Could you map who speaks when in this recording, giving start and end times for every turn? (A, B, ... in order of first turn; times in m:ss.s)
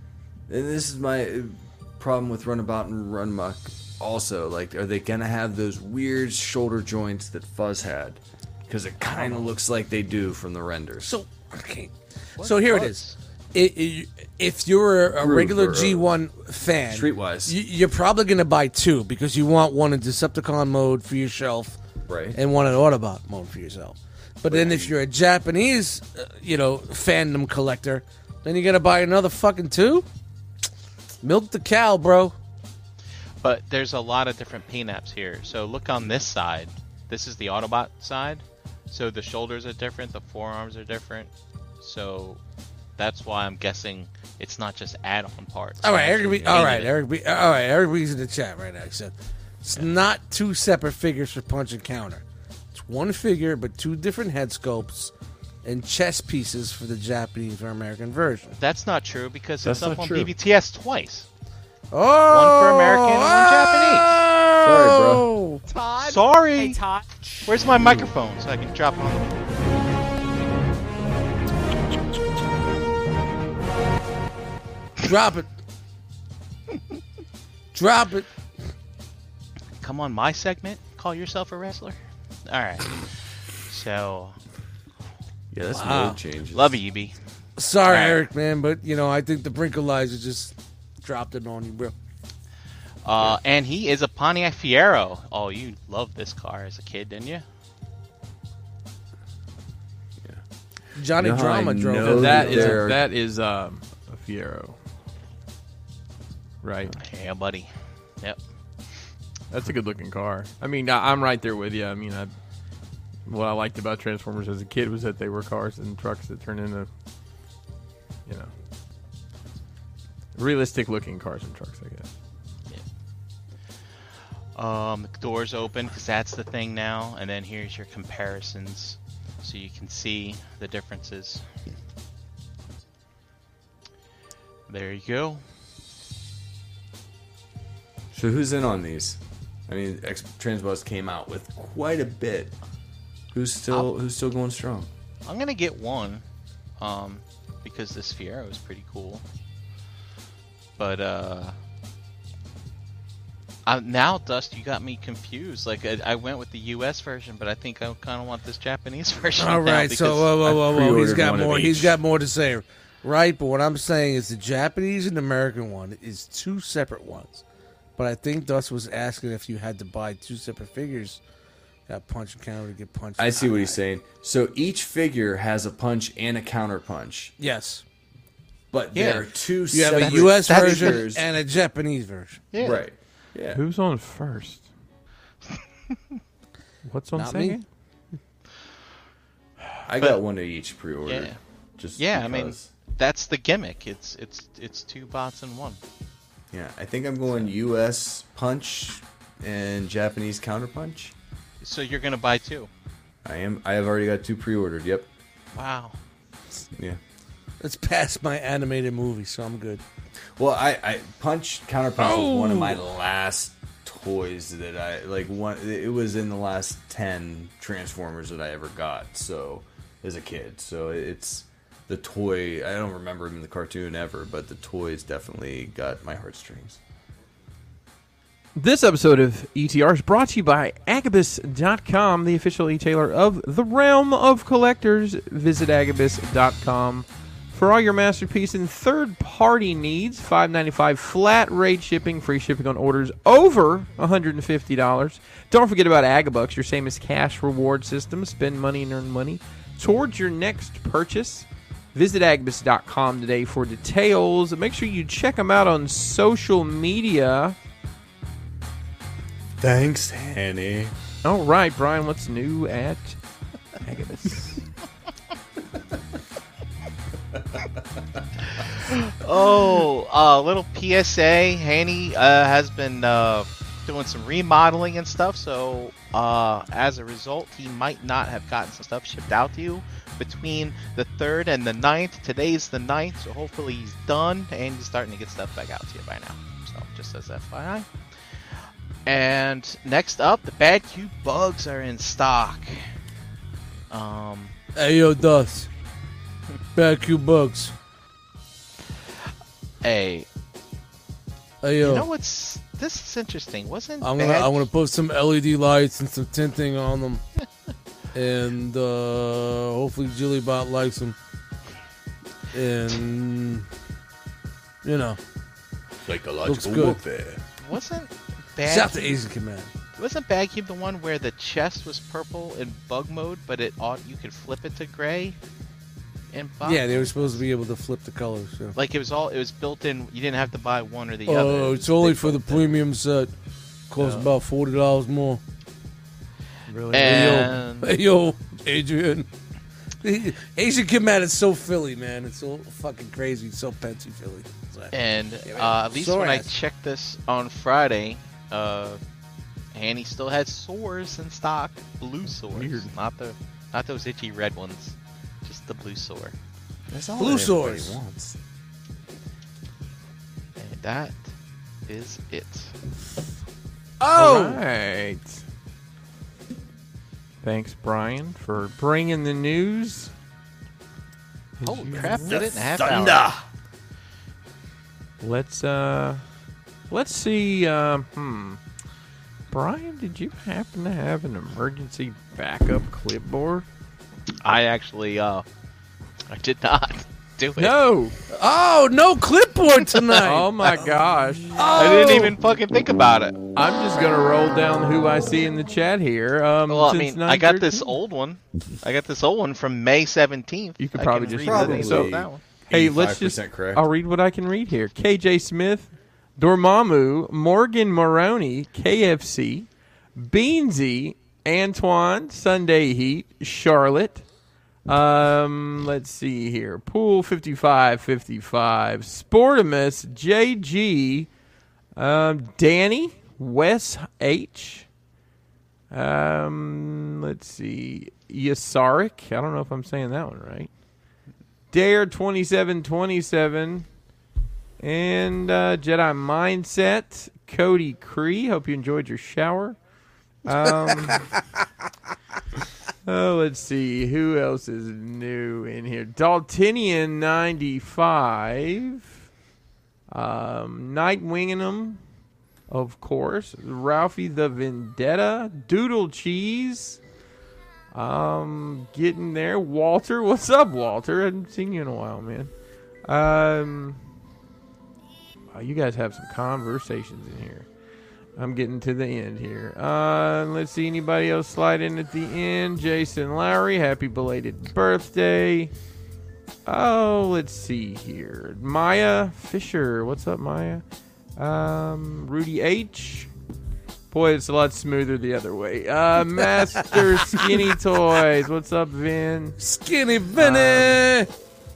0:00.5-0:11.2 A
0:09.0-0:09.6 B
0:11.0-0:13.0 B
0:12.4-0:13.2 C
0:13.5-0:21.8 B
0:15.1-0:16.1 A
0:16.9-0:17.6 A
0:22.1-0:22.4 A
0:22.3-0:30.1 B
0:24.5-0:25.0 A
0:31.2-0:32.4 B
0:33.4-0:42.4 C
0:43.0-0:47.0 C
0:45.8-0:55.1 B
0:55.6-0:58.6 B
0:58.6-1:01.3 C
0:59.6-1:00.3 A
1:01.9-1:07.0 B
1:02.3-1:04.2 C
1:04.6-1:05.3 A
1:06.0-1:06.8 C
1:07.4-1:09.4 C
1:15.0-1:15.5 B
1:17.7-1:18.3 B
1:19.8-1:23.1 C
1:23.6-1:24.4 C
1:25.5-1:26.8 A
1:25.7-1:26.2 B
1:26.5-1:27.2 C
1:27.6-1:32.0 B
1:27.8-1:28.2 C
1:33.0-1:37.5 C
1:41.0-1:42.8 B
1:41.2-1:43.0 A
1:42.0-1:44.8 D
1:46.6-1:47.0 D
1:47.0-1:48.4 C
1:49.5-1:52.3 D
1:53.3-1:56.9 D
2:00.4-2:02.1 D
2:04.6-2:11.4 C
2:14.7-2:15.4 C
2:18.1-2:22.6 A
2:23.3-2:24.9 A
2:25.2-2:26.2 C
2:26.8-2:29.2 C
2:30.8-2:31.6 C
2:33.7-2:40.4 C
2:39.4-2:47.4 B
2:40.4-2:42.0 A
2:48.0-2:51.2 B
2:51.9-2:53.8 B
2:53.2-2:57.4 A
2:57.4-2:57.8 B
2:58.7-3:01.3 A
2:58.9-3:01.1 C
2:59.7-3:02.4 B
3:02.5-3:02.8 C
3:02.6-3:03.6 A
3:03.5-3:04.7 D
3:06.8-3:07.6 D
3:07.1-3:07.6 B
3:09.9-3:12.7 A
3:11.1-3:11.4 C
3:12.0-3:15.8 C
3:16.5-3:21.1 A
3:21.6-3:22.7 C
3:23.2-3:25.1 A
3:25.5-3:26.0 C
3:26.8-3:27.0 A
3:27.6-3:29.8 B
3:30.4-3:46.8 A
3:32.0-3:32.9 B
3:48.6-4:17.6 D
4:19.6-4:20.9 A
4:21.2-4:23.2 D
4:23.8-4:24.7 D
4:28.5-4:52.9 C
4:53.9-4:54.6 C
4:54.8-4:55.7 B
4:56.8-4:57.7 B
4:59.8-5:00.3 C
5:01.6-5:02.1 B
5:01.8-5:04.7 C
5:04.0-5:07.2 B
5:08.1-5:11.2 B
5:12.5-5:13.7 B
5:14.8-5:15.2 B
5:16.0-5:17.4 A
5:16.4-5:17.0 B
5:17.6-5:19.2 C
5:18.6-5:19.7 B
5:20.0-5:25.4 C
5:26.3-5:27.4 C
5:26.6-5:28.8 B
5:28.8-5:32.8 C
5:31.3-5:33.3 B
5:33.9-5:35.4 B
5:34.0-5:34.3 C
5:36.7-5:37.4 D
5:36.8-5:39.3 B
5:36.9-5:38.0 C
5:40.0-5:46.5 B
5:44.9-5:49.0 C
5:49.7-5:56.4 C
5:52.5-5:52.9 D
5:56.9-5:58.4 A
5:57.2-5:58.0 B
6:00.6-6:01.3 C
6:01.9-6:02.8 C
6:04.0-6:05.4 D
6:04.0-6:04.6 B
6:07.4-6:10.1 D
6:11.6-6:12.4 D
6:11.6-6:13.2 C
6:12.0-6:13.4 B
6:15.2-6:16.2 D
6:16.9-6:18.6 D
6:19.5-6:23.7 D
6:24.4-6:25.5 C
6:26.3-6:27.8 C
6:27.6-6:28.2 D
6:28.3-6:30.7 B
6:30.2-6:31.6 D
6:31.6-6:32.4 B
6:31.7-6:33.4 C
6:33.6-6:38.0 D
6:36.7-6:42.4 C
6:40.8-6:42.1 D
6:41.4-6:43.8 A
6:42.7-6:54.2 D
6:54.9-7:01.3 D
7:02.0-7:04.9 D
7:05.9-7:10.7 D
7:11.7-7:13.9 D
7:14.8-7:19.8 D
7:20.4-7:21.4 D
7:20.8-7:21.1 B
7:23.0-7:29.1 D
7:30.1-7:32.0 D
7:32.7-7:37.0 D
7:37.9-7:42.5 D
7:43.0-7:44.0 D
7:45.5-7:47.7 D
7:48.4-7:55.7 D
7:56.7-8:00.8 D
8:01.4-8:03.3 D
8:04.1-8:09.6 D
8:06.9-8:07.6 B
8:09.6-8:11.3 B
8:10.4-8:11.0 D